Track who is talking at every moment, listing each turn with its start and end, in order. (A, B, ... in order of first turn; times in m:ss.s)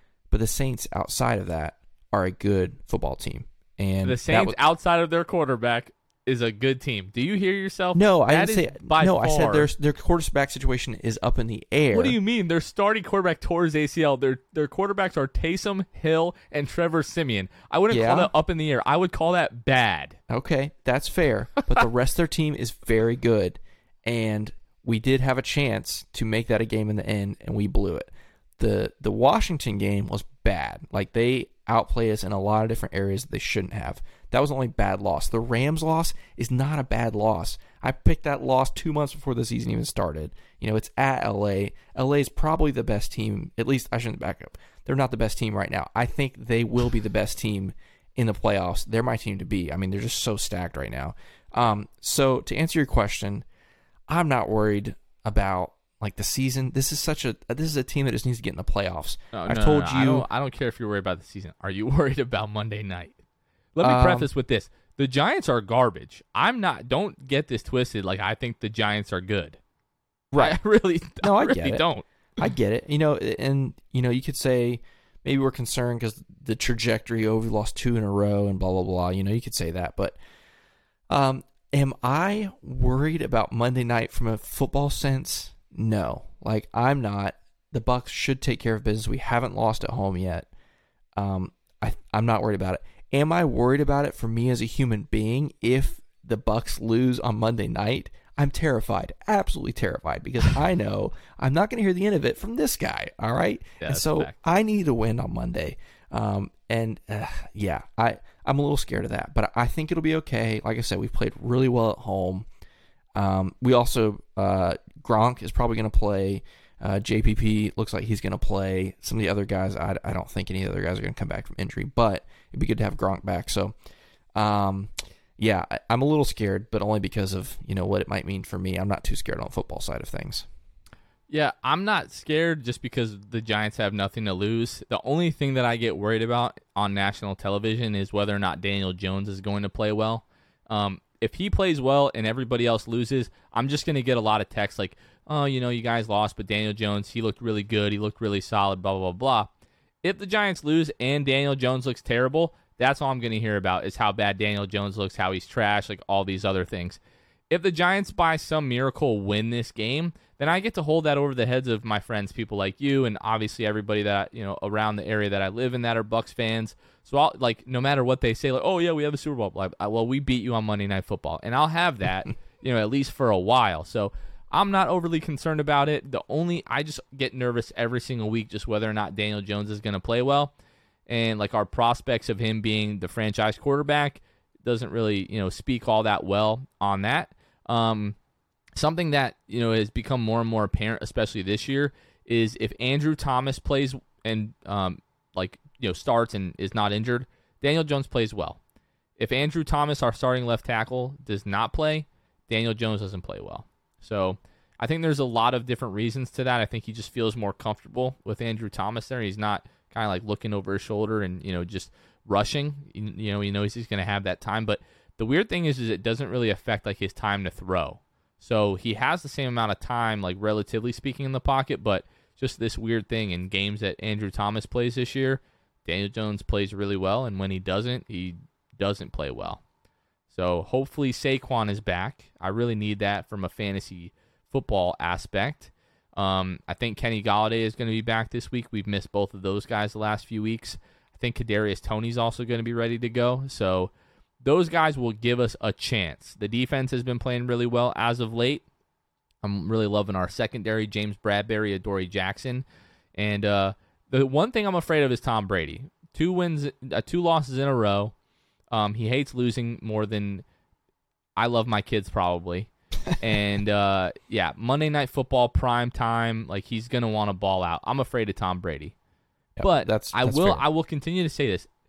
0:00.3-0:04.7 A
0:04.0-0:09.7 B
0:07.9-0:12.2 A
0:11.9-0:20.2 B
0:17.9-0:18.3 A
0:20.3-0:53.4 A
0:54.1-1:00.3 A
0:59.3-1:03.1 B
1:03.7-1:09.6 B
1:03.8-1:04.3 A
1:10.3-1:10.6 A
1:10.4-1:12.0 B
1:11.2-1:11.8 A
1:12.4-1:20.2 A
1:21.1-1:30.5 A
1:31.2-1:52.5 A
1:43.8-1:44.4 B
1:53.2-2:03.7 A
2:04.3-2:10.4 A
2:11.3-2:29.5 B
2:30.0-3:00.5 B
3:01.1-3:08.2 B
3:08.8-3:18.6 B
3:19.2-3:49.6 B
3:50.3-4:03.9 B
4:04.4-4:08.6 B
4:09.4-4:18.1 B
4:18.7-4:20.4 B
4:21.4-4:28.9 B
4:29.6-4:30.6 A
4:29.6-4:31.7 B